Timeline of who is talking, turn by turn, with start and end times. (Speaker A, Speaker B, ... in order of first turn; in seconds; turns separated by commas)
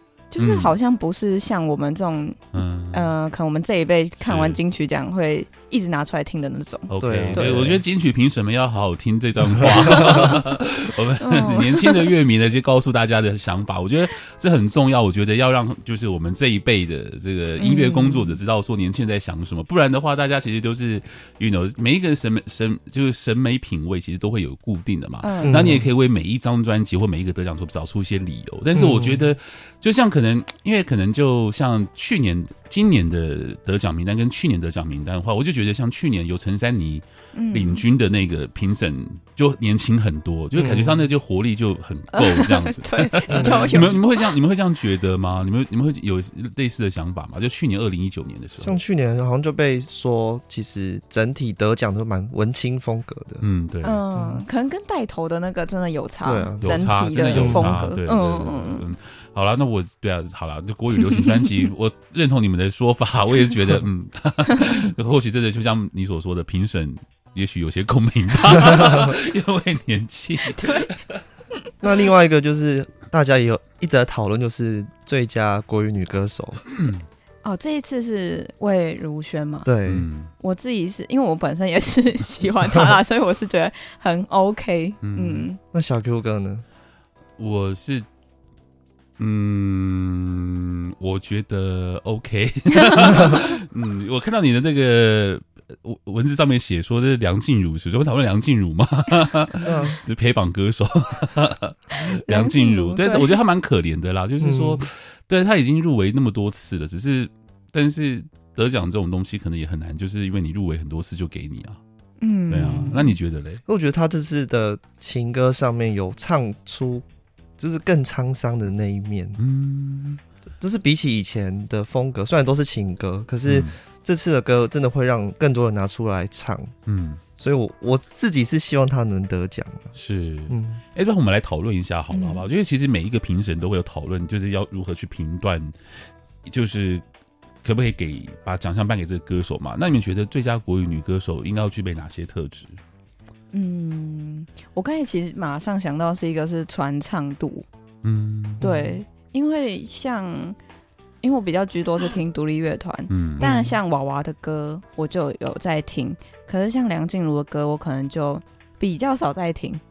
Speaker A: 0.3-7.5, Speaker B: 0.4-0.7, Speaker B: 2.5-3.1, Speaker B: 4.2-4.6, Speaker B: 6.9-48.8, Speaker C: 7.0-7.8, Speaker C: 9.6-10.2, Speaker A: 11.2-12.1, Speaker A: 17.6-18.4, Speaker A: 25.2-25.7, Speaker C: 25.4-25.9, Speaker C: 28.7-29.3, Speaker A: 37.3-37.8, Speaker C: 40.5-41.1, Speaker A: 42.1-44.3, Speaker C: 43.3-43.8, Speaker C: 48.6-53.4, Speaker B: 53.4-54.0, Speaker A: 53.8-58.9, Speaker C: 54.1-54.4, Speaker C: 56.2-57.8, Speaker B: 56.6-71.2, Speaker C: 68.8-69.1, Speaker A: 70.4-70.9, Speaker C: 71.8-76.6, Speaker B: 76.7-77.0, Speaker A: 77.4-79.7, Speaker C: 79.6-80.1, Speaker B: 79.9-80.3, Speaker A: 80.4-85.6, Speaker B: 85.0-85.5, Speaker C: 85.7-86.6, Speaker B: 87.4-88.1, Speaker B: 89.2-111.8, Speaker A: 92.8-93.4, Speaker C: 99.6-100.0, Speaker A: 102.0-103.4, Speaker C: 104.4-104.9, Speaker A: 112.2-113.2, Speaker B: 112.5-113.6, Speaker C: 113.7-117.0, Speaker C: 117.6-119.4, Speaker B: 119.4-120.2, Speaker C: 120.6-126.7, Speaker B: 123.4-123.7, Speaker B: 126.8-127.2, Speaker C: 127.4-129.9, Speaker B: 129.9-137.0, Speaker C: 130.5-130.8, Speaker A: 132.1-132.4, Speaker B: 137.6-142.8, Speaker A: 143.5-147.7, Speaker B: 148.0-148.7, Speaker A: 148.6-150.6, Speaker C: 148.6-148.9, Speaker A: 151.2-159.8, Speaker B: 153.1-153.4, Speaker C: 153.4-153.8